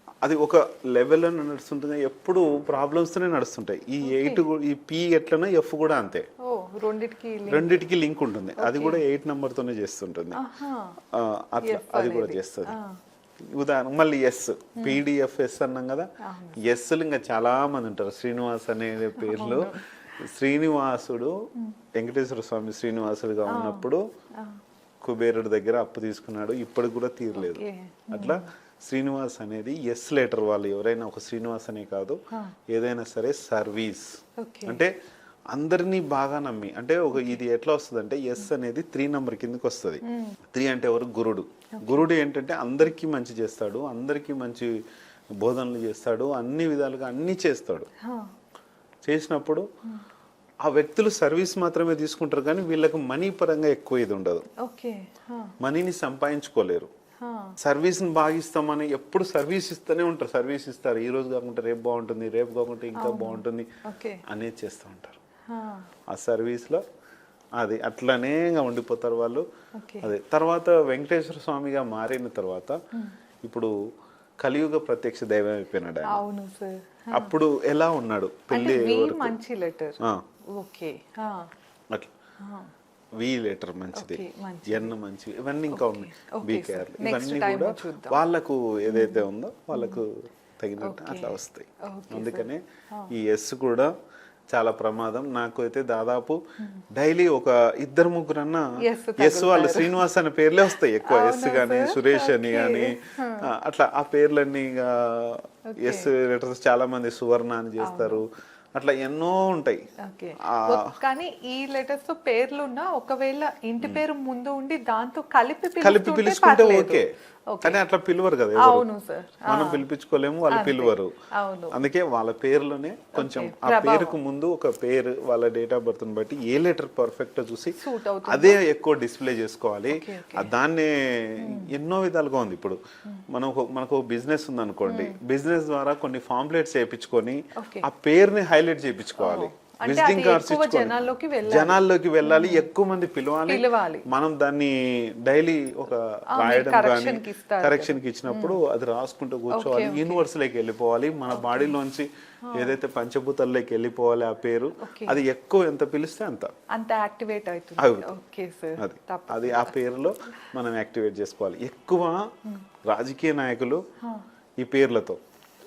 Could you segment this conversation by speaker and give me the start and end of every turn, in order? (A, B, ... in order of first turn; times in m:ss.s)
0:00.2-0:06.3 A
0:04.0-0:04.4 B
0:06.4-0:07.9 B
0:07.5-0:10.4 A
0:08.6-0:09.0 B
0:10.3-0:11.0 B
0:11.1-0:12.8 A
0:11.6-0:13.0 B
0:13.5-0:21.4 A
0:14.8-0:15.0 B
0:16.2-0:16.6 B
0:19.2-0:19.8 B
0:22.0-0:24.0 A
0:23.5-0:24.6 B
0:25.0-0:34.9 A
0:27.4-0:28.5 B
0:34.4-0:34.8 B
0:35.5-0:44.7 A
0:40.0-0:40.4 B
0:41.8-0:42.1 B
0:45.4-0:47.9 A
0:48.0-0:48.3 B
0:49.1-0:49.7 A
0:50.6-0:54.5 A
0:54.6-0:55.5 B
0:55.6-0:56.9 A
0:57.2-0:57.6 B
0:57.6-1:03.7 A
1:03.0-1:04.2 B
1:04.3-1:05.2 A
1:05.5-1:05.9 B
1:06.1-1:06.8 A
1:07.6-1:09.5 A
1:09.8-1:10.1 B
1:10.0-1:12.8 A
1:13.4-1:13.7 A
1:14.4-1:16.2 A
1:16.1-1:17.3 B
1:17.1-1:19.4 A
1:18.5-1:21.5 B
1:22.4-1:22.7 B
1:23.2-1:33.9 A
1:23.9-1:24.9 B
1:25.7-1:28.2 B
1:28.9-1:30.0 B
1:30.8-1:33.1 B
1:34.5-1:36.4 A
1:36.9-1:38.7 A
1:38.8-1:40.0 B
1:39.2-1:49.8 A
1:41.0-1:43.5 B
1:45.7-1:46.1 B
1:47.8-1:48.2 B
1:50.0-1:57.8 B
1:50.4-1:50.9 A
1:55.8-1:57.1 A
1:57.6-1:58.9 A
1:58.6-1:59.8 B
1:59.4-2:01.1 A
2:00.5-2:01.8 B
2:01.7-2:07.8 A
2:03.2-2:04.2 B
2:07.8-2:08.6 B
2:08.3-2:36.5 A
2:09.9-2:10.5 B
2:11.4-2:11.7 B
2:14.9-2:15.2 B
2:17.6-2:17.9 B
2:19.2-2:22.7 B
2:23.5-2:24.1 B
2:26.4-2:28.6 B
2:29.5-2:30.2 B
2:31.3-2:31.7 B
2:32.4-2:32.8 B
2:34.8-2:35.2 B
2:36.7-2:39.8 B
2:37.8-2:38.2 A
2:38.8-2:42.3 A
2:42.8-2:43.8 A
2:44.6-2:45.2 A